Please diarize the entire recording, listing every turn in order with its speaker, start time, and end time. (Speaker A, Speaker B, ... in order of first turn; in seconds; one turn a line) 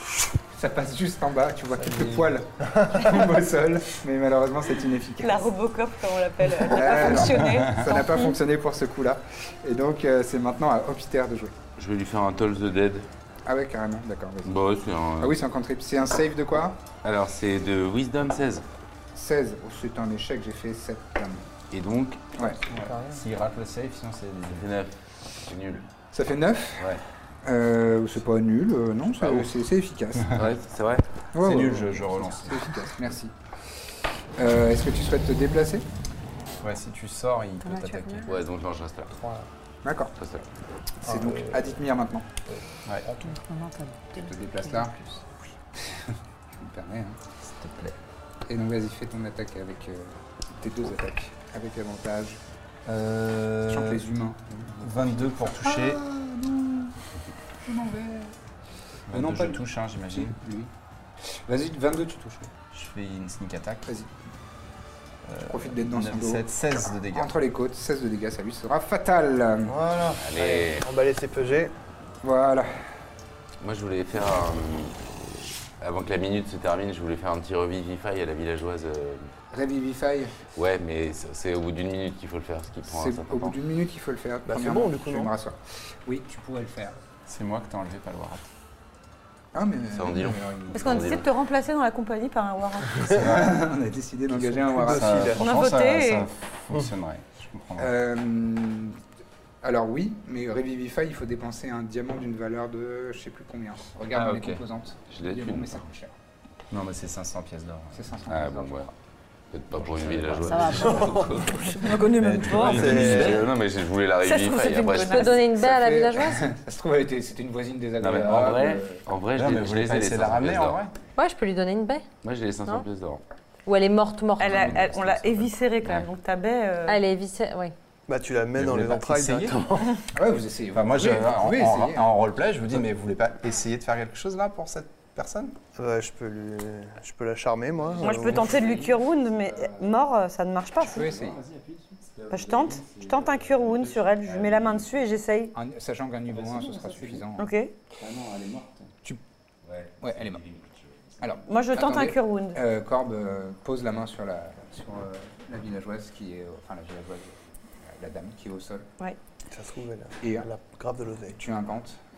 Speaker A: 0.5-5.5
Speaker B: 5.2-8.4
Speaker A: 6.7-11.5
Speaker C: 11.8-13.1
Speaker A: 13.4-14.6
Speaker C: 14.4-15.4
Speaker A: 15.2-16.8
Speaker C: 17.0-18.6
Speaker A: 19.1-21.4
Speaker C: 21.7-22.2
Speaker D: 22.7-24.7
Speaker E: 22.7-23.2
Speaker C: 24.5-25.8
Speaker A: 26.1-30.4
Speaker C: 30.3-31.1
Speaker A: 31.3-33.3
Speaker D: 31.4-32.8
Speaker A: 34.4-35.8
Speaker D: 36.6-38.4
Speaker F: 37.6-38.3
Speaker C: 38.2-39.1
Speaker E: 39.1-39.5
Speaker A: 39.8-40.1
Speaker C: 40.2-40.5
Speaker A: 41.0-42.3
Speaker E: 41.0-41.8
Speaker D: 42.8-43.2
Speaker F: 43.2-44.9
Speaker A: 44.1-45.0
Speaker A: 45.8-47.2
Speaker D: 47.5-47.9
Speaker A: 48.5-52.4
Speaker D: 52.9-54.0
Speaker A: 53.6-56.9
Speaker D: 54.8-56.0
Speaker A: 57.6-58.3
Speaker D: 59.1-60.4
Speaker A: 59.1-60.7
Speaker A: 61.5-62.5
Speaker D: 62.7-63.9
Speaker D: 65.2-67.3
Speaker A: 65.4-69.8
Speaker E: 69.6-71.7
Speaker C: 70.2-70.8
Speaker A: 72.2-72.7
Speaker C: 73.6-75.0
Speaker C: 75.8-79.3
Speaker A: 79.5-80.4
Speaker C: 80.5-83.6
Speaker A: 82.9-87.0
Speaker E: 84.5-85.3
Speaker D: 87.3-88.5
Speaker A: 89.5-91.2
Speaker C: 89.9-91.2
Speaker B: 90.7-93.4
Speaker A: 93.1-95.3
Speaker E: 94.3-95.4
Speaker D: 94.8-97.9
Speaker B: 95.4-96.3
Speaker A: 97.8-99.0
Speaker A: 99.6-106.1
Speaker D: 104.1-104.6
Speaker C: 105.1-105.8
Speaker D: 106.7-108.1
Speaker A: 107.9-108.7
Speaker C: 108.3-108.9
Speaker C: 109.5-111.8
Speaker D: 109.9-111.0
Speaker F: 110.5-111.3
Speaker B: 111.5-113.2
Speaker D: 112.1-113.5
Speaker E: 112.6-113.4
Speaker C: 112.8-115.3
Speaker B: 114.2-115.4
Speaker F: 115.0-116.5
Speaker A: 115.4-119.0
Speaker C: 118.0-120.8
Speaker D: 119.3-120.9
Speaker F: 121.2-122.0
Speaker C: 122.2-123.2
Speaker F: 123.7-124.8
Speaker B: 124.4-127.0
Speaker D: 124.7-125.4
Speaker F: 126.8-127.7
Speaker E: 128.1-130.0
Speaker D: 128.6-129.7
Speaker A: 130.1-132.1
Speaker D: 130.7-135.5
Speaker E: 135.8-138.5
Speaker D: 137.9-139.8
Speaker B: 138.0-141.1
Speaker A: 140.8-141.4
Speaker D: 140.9-144.9
Speaker B: 142.3-145.5
Speaker A: 145.5-147.5
Speaker D: 146.3-147.2
Speaker B: 147.3-147.7
Speaker D: 147.9-148.9
Speaker C: 149.7-150.7
Speaker A: 150.0-150.4
Speaker A: 151.2-158.9
Speaker B: 151.5-152.6
Speaker E: 159.5-161.4
Speaker A: 161.3-162.0